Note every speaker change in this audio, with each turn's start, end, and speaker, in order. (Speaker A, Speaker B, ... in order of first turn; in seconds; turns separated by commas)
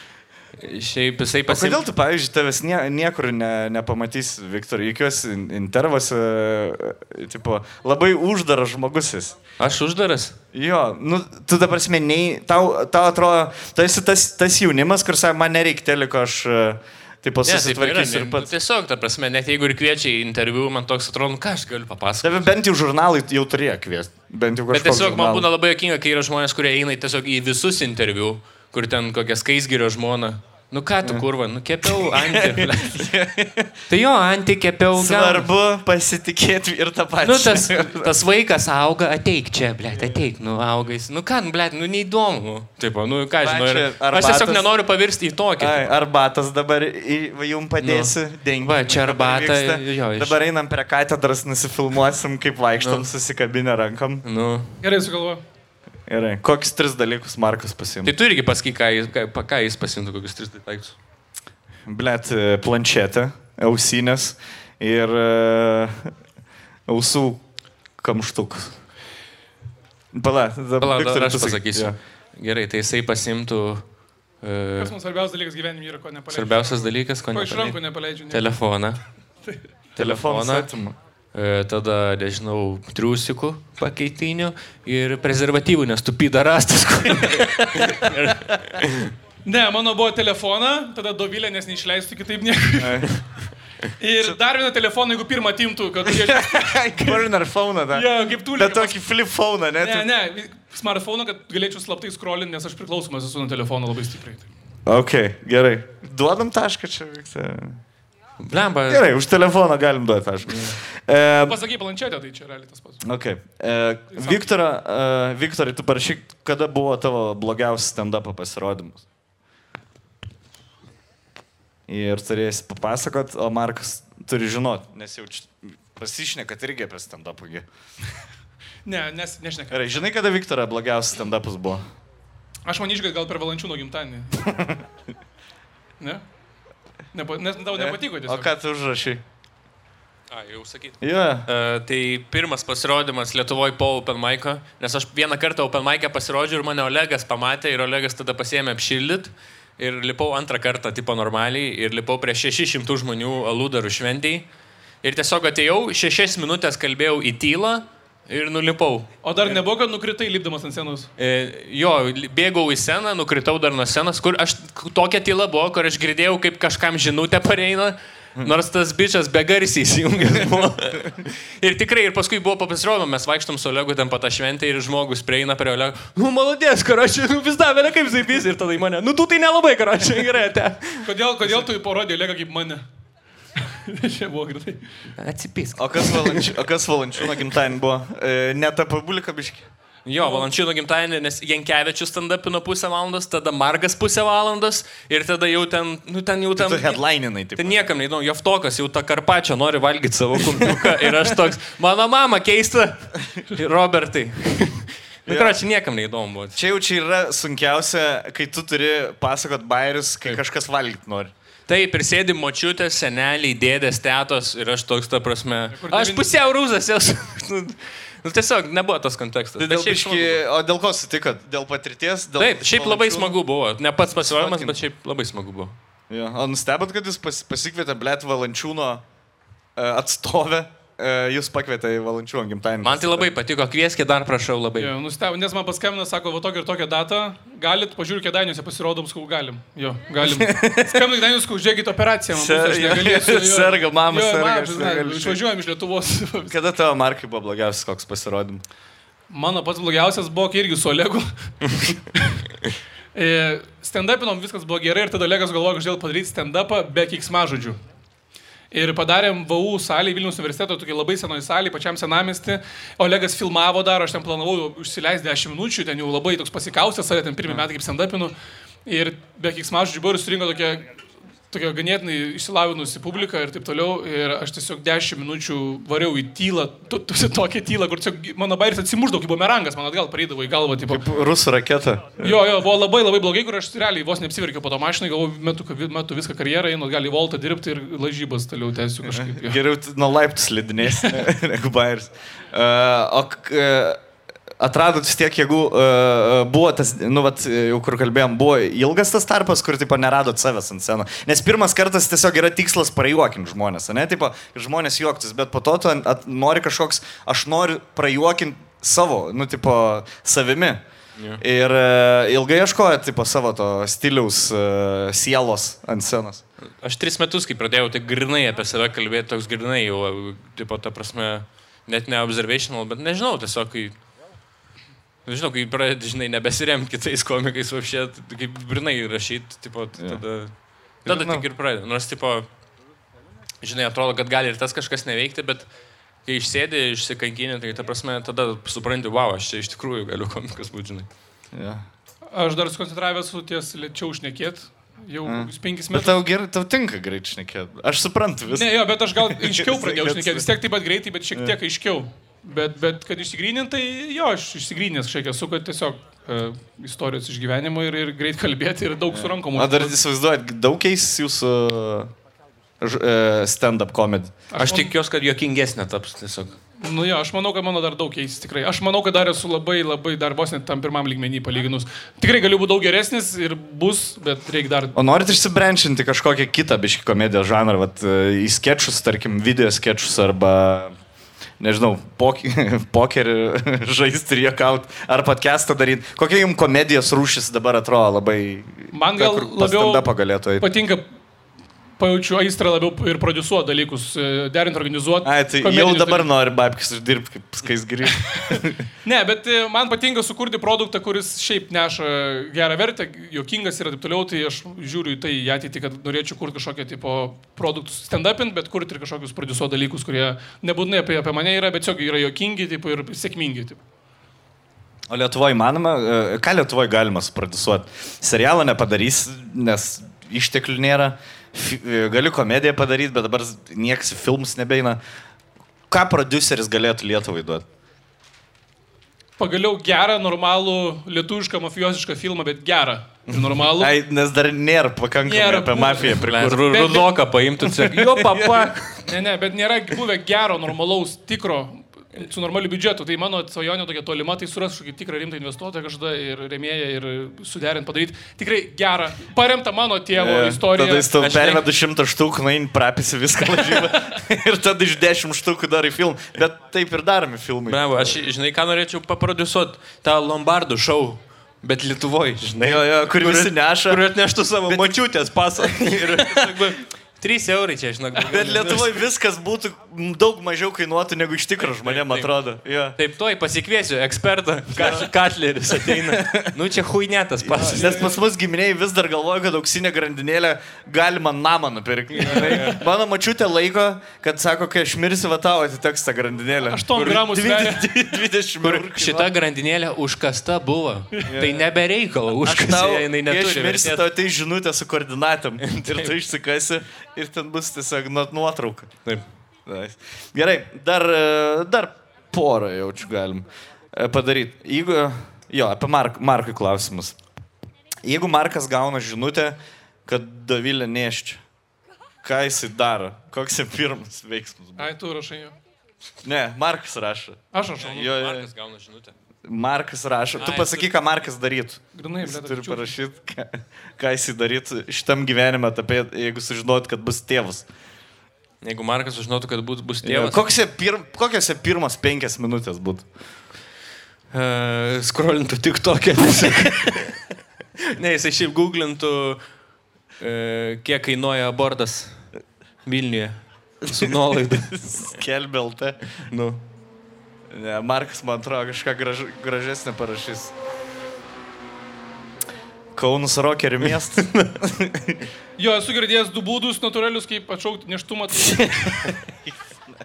Speaker A: 0.6-1.8, Speaker B: 1.5-9.4, Speaker A: 9.6-10.4, Speaker B: 10.5-18.5, Speaker A: 17.4-22.5, Speaker B: 22.2-25.5, Speaker A: 24.7-33.1, Speaker B: 31.8-33.8, Speaker A: 33.9-35.5, Speaker B: 34.9-38.1, Speaker A: 37.2-45.9, Speaker B: 40.0-40.2, Speaker B: 43.4-44.6, Speaker B: 45.6-54.2, Speaker A: 47.8-50.4, Speaker A: 52.8-53.1, Speaker A: 54.2-54.8, Speaker C: 54.8-55.4, Speaker B: 56.1-58.1, Speaker A: 58.0-61.0, Speaker B: 61.9-66.1, Speaker B: 66.9-67.5, Speaker B: 68.0-68.8, Speaker B: 70.1-72.0, Speaker A: 70.8-73.8, Speaker A: 74.4-74.9, Speaker C: 74.8-78.5, Speaker A: 76.3-79.0, Speaker A: 80.0-80.7, Speaker B: 80.0-81.0, Speaker A: 81.3-89.1, Speaker B: 87.3-87.9, Speaker C: 89.5-93.1, Speaker B: 92.8-93.2, Speaker C: 94.0-97.3, Speaker B: 96.1-100.1, Speaker C: 97.9-99.0, Speaker C: 99.8-104.5, Speaker B: 104.9-107.8, Speaker A: 108.4-109.0, Speaker B: 108.9-111.6, Speaker A: 110.5-110.8, Speaker C: 111.5-113.0, Speaker B: 113.0-119.0, Speaker C: 114.1-114.4, Speaker B: 121.9-127.7, Speaker C: 128.8-130.0, Speaker B: 129.7-131.9, Speaker C: 132.7-134.4, Speaker B: 134.5-134.8, Speaker C: 137.1-138.5, Speaker B: 137.7-139.2, Speaker A: 140.3-154.5, Speaker B: 141.0-141.5, Speaker A: 155.0-159.1, Speaker C: 159.2-161.1, Speaker A: 161.2-181.1, Speaker C: 181.0-182.8, Speaker C: 183.9-184.8, Speaker A: 185.2-186.5, Speaker B: 185.8-189.7, Speaker A: 190.1-197.0, Speaker C: 190.2-190.5, Speaker B: 196.6-197.9, Speaker A: 197.6-206.6, Speaker B: 200.6-201.2, Speaker B: 205.3-205.6, Speaker B: 206.5-211.3, Speaker A: 211.7-220.4, Speaker C: 215.7-216.2, Speaker B: 219.6-223.4, Speaker A: 222.4-225.8, Speaker B: 224.2-224.8, Speaker B: 226.1-229.0, Speaker B: 229.8-233.3, Speaker A: 232.8-234.9, Speaker C: 234.8-246.5, Speaker B: 240.2-241.0, Speaker B: 242.3-245.4, Speaker B: 246.4-248.6, Speaker C: 249.3-251.3, Speaker C: 253.2-257.8, Speaker C: 258.7-268.3, Speaker C: 268.9-270.9, Speaker C: 271.5-281.0, Speaker B: 280.9-282.4, Speaker C: 282.2-289.6, Speaker B: 289.1-294.0, Speaker B: 294.6-310.8, Speaker B: 311.4-316.4, Speaker A: 316.8-324.0, Speaker A: 325.3-332.5, Speaker B: 330.0-330.2, Speaker B: 331.0-331.5, Speaker A: 333.6-335.7, Speaker A: 336.2-341.1, Speaker B: 341.5-341.9, Speaker C: 342.3-346.2, Speaker B: 345.2-350.5, Speaker C: 348.5-360.0, Speaker B: 359.1-362.1, Speaker B: 362.8-364.4, Speaker C: 364.5-364.9, Speaker A: 364.6-366.6, Speaker C: 366.8-374.9, Speaker B: 374.9-380.9, Speaker B: 381.6-390.7, Speaker C: 388.9-390.1, Speaker C: 390.6-391.1, Speaker C: 392.0-396.3, Speaker B: 395.2-398.8, Speaker C: 399.0-413.8, Speaker B: 415.1-425.0, Speaker B: 425.9-427.6, Speaker C: 429.4-434.0, Speaker B: 433.3-436.9, Speaker C: 435.3-437.1, Speaker A: 436.2-438.9, Speaker B: 437.6-438.8, Speaker C: 439.0-451.1, Speaker B: 450.1-458.2, Speaker A: 451.2-451.7, Speaker A: 457.7-469.1, Speaker B: 462.4-466.7, Speaker B: 468.2-473.0, Speaker A: 471.8-472.3, Speaker A: 473.0-478.0, Speaker B: 474.8-475.1, Speaker B: 475.7-476.5, Speaker B: 477.4-489.3, Speaker C: 477.7-478.2, Speaker A: 482.2-482.8, Speaker C: 482.3-482.7, Speaker C: 486.7-487.8, Speaker A: 488.6-494.0, Speaker B: 491.3-491.7, Speaker B: 492.4-499.0, Speaker A: 495.6-496.1, Speaker B: 499.7-507.2, Speaker B: 508.0-511.4, Speaker B: 512.2-514.9, Speaker C: 514.8-515.5, Speaker B: 516.2-518.5, Speaker C: 517.5-517.9, Speaker A: 517.8-519.1, Speaker B: 519.5-527.7, Speaker A: 520.4-520.9, Speaker C: 522.0-522.9, Speaker A: 528.6-530.5, Speaker B: 530.0-533.1, Speaker A: 534.3-537.2, Speaker A: 537.9-539.4, Speaker A: 540.2-542.3, Speaker A: 542.9-545.0, Speaker B: 543.9-546.0, Speaker A: 546.3-546.6, Speaker B: 547.5-550.5, Speaker B: 553.0-555.2, Speaker C: 555.6-559.1, Speaker B: 558.4-559.6